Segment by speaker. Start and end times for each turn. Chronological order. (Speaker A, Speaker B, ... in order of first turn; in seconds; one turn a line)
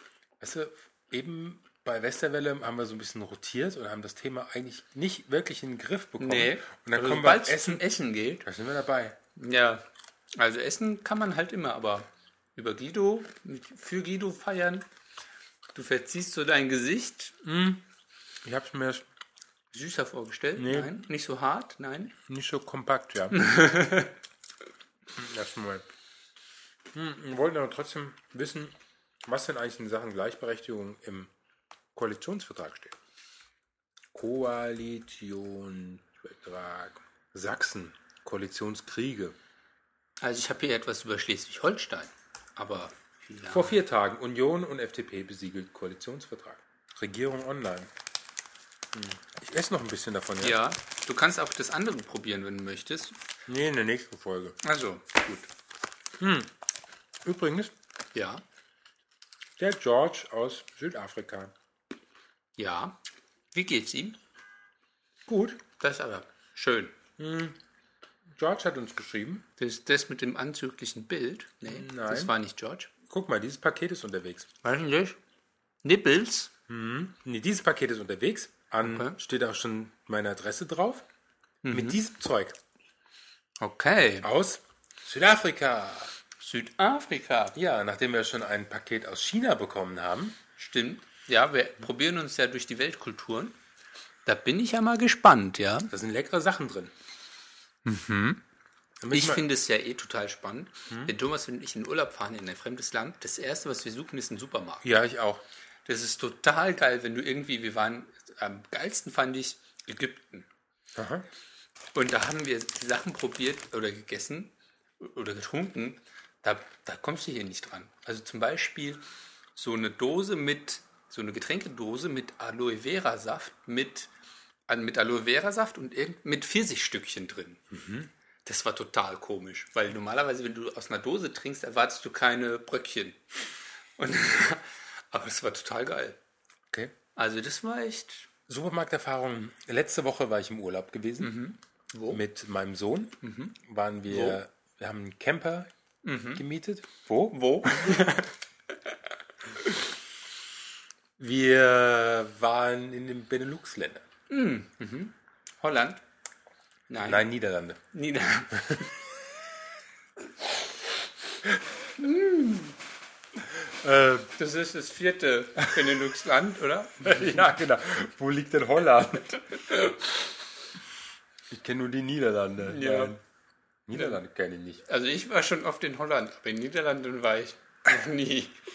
Speaker A: 0.4-7.8
Speaker B: 6.2-8.4
Speaker A: 8.4-9.2
Speaker B: 9.4-14.9
Speaker B: 15.7-17.4
Speaker A: 17.4-17.8
Speaker A: 18.4-19.1
Speaker B: 19.7-22.1
Speaker A: 20.6-21.0
Speaker A: 22.3-23.4
Speaker B: 23.3-24.1
Speaker A: 25.2-25.9
Speaker A: 26.9-31.3
Speaker A: 31.9-33.0
Speaker A: 34.1-39.4
Speaker B: 40.2-43.8
Speaker A: 43.5-47.9
Speaker A: 48.9-50.6
Speaker B: 50.4-53.2
Speaker A: 53.5-54.6
Speaker B: 54.6-55.5
Speaker A: 56.2-56.5
Speaker A: 57.2-57.7
Speaker B: 58.1-58.4
Speaker A: 59.6-61.5
Speaker B: 62.6-63.0
Speaker B: 63.5-64.2
Speaker A: 65.3-65.6
Speaker B: 65.8-67.0
Speaker A: 67.2-67.6
Speaker A: 68.4-69.5
Speaker B: 69.6-72.9
Speaker A: 71.7-72.3
Speaker A: 73.1-74.5
Speaker B: 74.6-75.2
Speaker B: 75.8-76.5
Speaker A: 76.7-81.1
Speaker B: 78.8-79.2
Speaker B: 81.6-82.0
Speaker A: 81.7-82.6
Speaker B: 83.6-84.3
Speaker A: 84.2-86.1
Speaker B: 86.4-87.6
Speaker A: 87.5-90.4
Speaker B: 90.6-93.6
Speaker B: 94.2-95.9
Speaker A: 95.9-96.9
Speaker B: 97.8-98.4
Speaker A: 99.0-99.4
Speaker B: 99.1-104.9
Speaker A: 100.9-101.1
Speaker A: 104.8-105.4
Speaker B: 105.8-110.5
Speaker A: 111.0-111.3
Speaker B: 111.9-119.0
Speaker B: 119.6-124.1
Speaker B: 124.7-127.6
Speaker A: 127.7-128.1
Speaker B: 128.4-133.2
Speaker B: 134.0-136.2
Speaker B: 137.2-138.3
Speaker A: 138.5-141.3
Speaker B: 141.2-142.2
Speaker A: 142.1-145.7
Speaker B: 143.2-143.6
Speaker B: 144.1-144.4
Speaker B: 146.0-146.4
Speaker A: 146.3-148.0
Speaker B: 147.3-149.8
Speaker A: 151.2-154.0
Speaker B: 154.3-156.0
Speaker B: 156.9-157.3
Speaker A: 157.0-157.8
Speaker B: 157.9-158.9
Speaker B: 162.0-162.8
Speaker A: 163.8-164.3
Speaker B: 164.4-167.5
Speaker A: 167.0-169.5
Speaker A: 171.5-173.2
Speaker B: 172.6-173.2
Speaker A: 173.9-174.8
Speaker B: 174.9-178.6